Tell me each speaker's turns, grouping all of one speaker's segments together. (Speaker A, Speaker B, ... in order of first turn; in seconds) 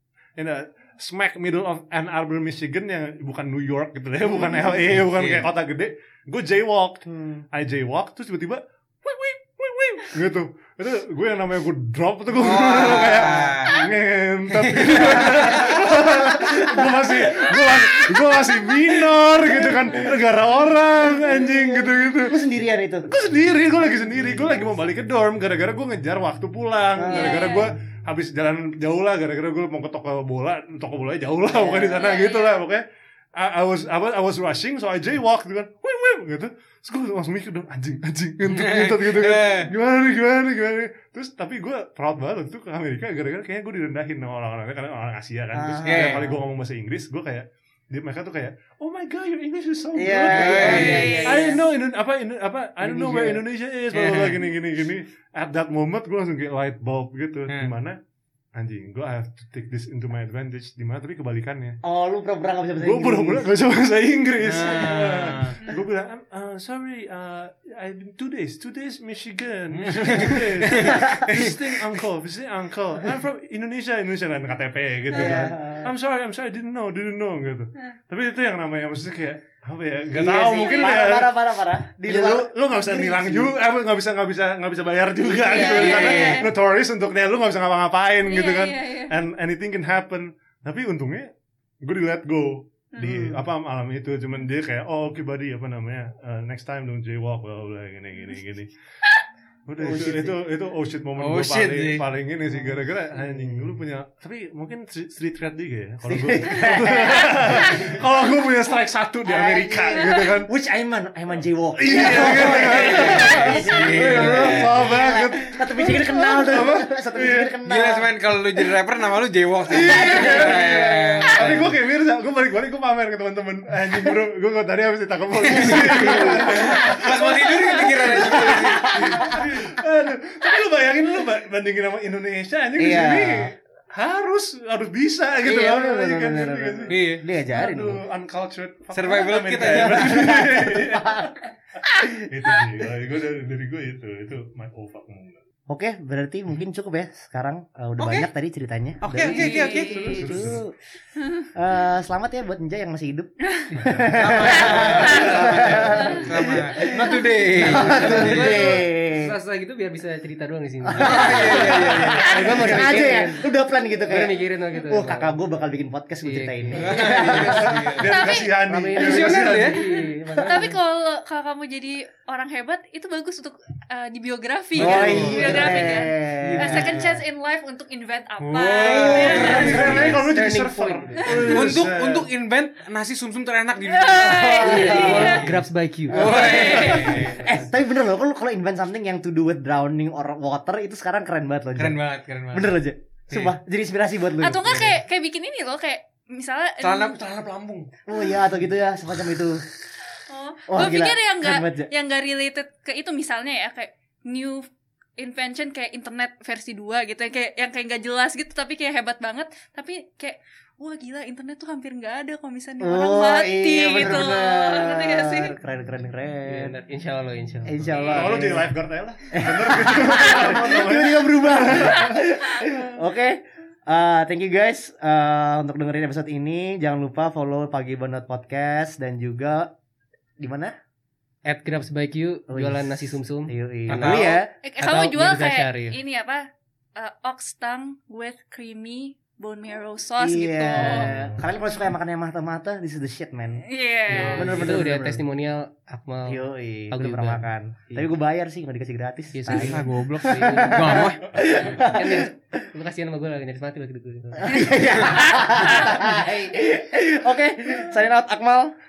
Speaker A: 0.4-22.4, 23.1-32.8, 33.4-58.0, 58.5-61.8, 62.8-81.4, 82.0-91.3, 91.8-98.7, 99.7-110.5, 111.8-117.5, 119.7-145.4, 149.8-150.6, 153.7-154.3, 154.9-156.0, 167.2-169.8, 179.3-182.3, 217.9-222.3, 240.9-241.4
Speaker B: 4.2-4.8, 7.1-7.4, 12.8-13.6, 14.9-17.8, 19.4-20.1, 21.0-23.1, 26.9-27.5, 31.5-32.0, 45.5-46.4, 50.0-51.6, 52.8-53.4, 61.8-63.5, 70.8-71.3, 75.1-75.9, 80.1-83.5, 85.3-86.5, 93.0-93.4, 99.8-100.4, 102.5-103.7, 106.0-108.0, 109.3-118.1, 119.7-121.7, 125.6-126.8, 128.1-129.4, 132.8-133.5, 135.4-138.0, 139.8-141.3, 145.7-150.7, 151.5-159.3, 160.8-167.9, 170.2-170.8, 174.8-177.0, 178.8-180.2, 184.1-185.4, 186.1-192.0, 192.5-195.0, 198.1-199.6, 200.7-201.9, 212.8-216.7, 217.6-218.7, 219.3-229.7, 230.4-230.7, 232.5-234.5, 240.2-243.6, 244.3-245.2, 246.2-252.3, 254.4-258.7
Speaker C: 5.1-5.5, 12.4-13.8, 14.5-15.8, 38.4-39.7, 45.8-46.2, 50.2-51.2, 53.9-54.5, 64.4-65.6, 69.7-72.0, 101.2-102.0, 112.4-114.9, 117.7-121.7, 125.3-129.2, 136.9-137.2, 138.9-140.3, 148.0-148.3, 149.0-150.3, 154.1-158.6, 160.9-163.0, 166.7-168.2, 168.9-169.8, 174.8-176.0, 176.7-177.2, 178.4-180.2, 181.4-187.5, 191.8-192.7, 196.8-197.9, 233.9-234.4, 249.5-251.2
Speaker D: 27.1-27.7, 31.9-32.6, 50.5-51.6, 80.5-81.0, 85.4-86.5, 88.2-89.1, 149.1-150.3, 151.2-151.4, 168.0-168.5, 170.4-179.8, 183.8-185.5, 186.1-187.4, 194.4-197.2, 200.3-204.7, 205.2-215.5, 217.9-218.3, 222.5-222.8, 234.6-241.1, 243.7-244.6, 254.5-256.0
Speaker E: 155.7-156.2, 156.8-163.5, 164.1-165.3, 166.2-167.0, 168.7-170.7, 176.4-177.1, 179.3-181.6, 184.4-187.5, 216.4-217.9, 231.4-236.0, 244.1-246.4, 246.9-248.1, 249.3-254.5